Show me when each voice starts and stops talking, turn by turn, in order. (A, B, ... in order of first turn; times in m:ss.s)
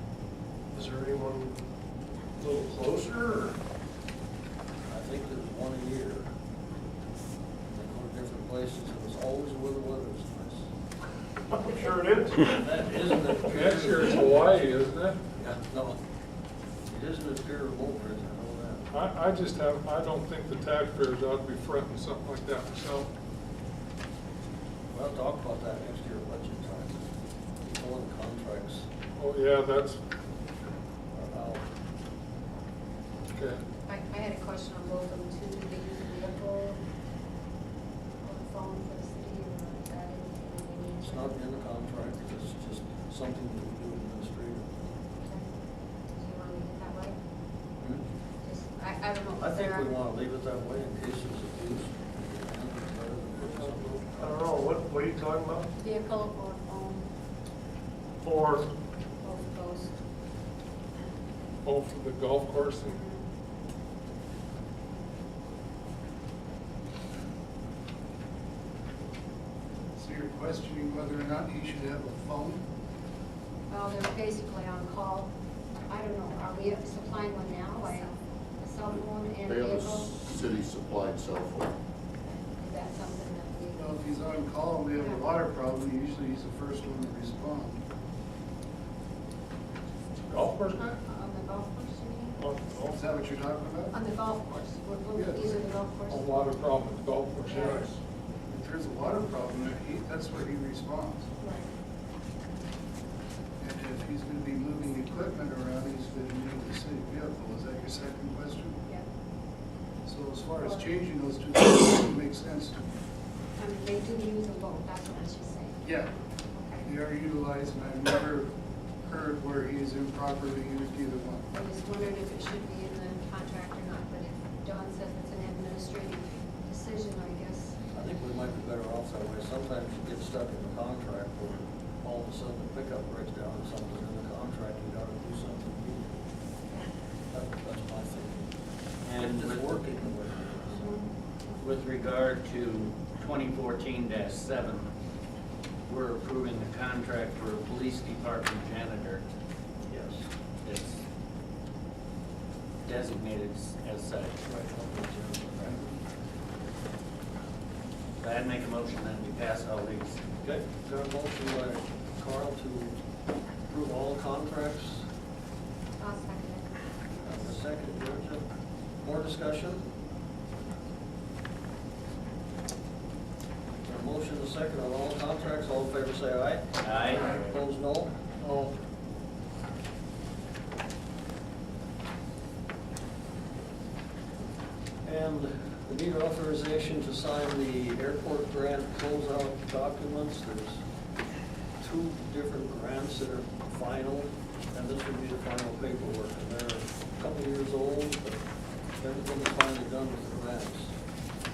0:00.7-0:01.6 A
0:02.4-0:03.6 A
0:04.9-0:06.3 B
0:07.7-0:10.7 B
0:11.5-0:12.6 A
0:11.7-0:14.4 B
0:13.5-0:15.2 C
0:15.4-0:16.0 B
0:16.9-0:18.9 B
0:18.9-0:23.1 C
0:24.9-0:27.1 B
0:27.6-0:28.9 B
0:29.2-0:30.0 C
0:31.1-0:31.7 B
0:33.3-0:33.6 C
0:33.8-0:36.8 D
0:38.2-0:41.4 D
0:41.0-0:44.8 B
0:45.2-0:45.5 D
0:46.2-0:47.2 D
0:48.4-0:49.9 D
0:49.4-0:54.4 B
0:54.2-0:55.7 A
0:55.8-0:57.1 D
0:58.2-0:58.6 A
0:59.2-1:00.0 D
1:01.6-1:02.9 C
1:02.8-1:03.2 D
1:10.0-1:12.6 E
1:13.7-1:15.3 D
1:15.9-1:20.1 D
1:19.4-1:21.7 F
1:22.2-1:23.9 D
1:23.8-1:27.8 E
1:25.0-1:25.2 D
1:30.3-1:31.0 C
1:31.0-1:32.6 D
1:32.4-1:32.9 C
1:32.9-1:33.9 E
1:33.9-1:36.3 D
1:35.1-1:35.6 E
1:36.1-1:38.0 C
1:37.4-1:37.8 D
1:38.5-1:41.3 E
1:41.4-1:41.7 D
1:43.6-1:48.8 E
1:50.0-1:52.9 E
1:50.6-1:50.9 D
1:53.6-1:55.8 D
1:55.8-1:56.1 E
1:56.5-1:56.8 D
1:56.8-2:01.4 E
2:01.5-2:07.8 D
2:07.9-2:16.2 B
2:17.3-2:18.5 B
2:19.0-2:19.8 G
2:19.1-2:20.8 B
2:20.7-2:21.5 D
2:21.6-2:24.9 G
2:25.9-2:29.2 G
2:29.9-2:30.2 B
2:30.6-2:31.0 G
2:32.8-2:34.5 G
2:34.5-2:35.9 B
2:35.2-2:35.8 G
2:38.2-2:40.3 G
2:40.4-2:43.0 B
2:43.6-2:45.1 B
2:46.0-2:46.8 D
2:47.2-2:48.4 B
2:49.0-2:49.8 B
2:53.8-2:58.1 B
2:56.8-2:57.5 G
2:58.4-2:58.7 C
3:05.0-3:10.8 B
3:11.8-3:18.4 B
3:19.0-3:21.0 B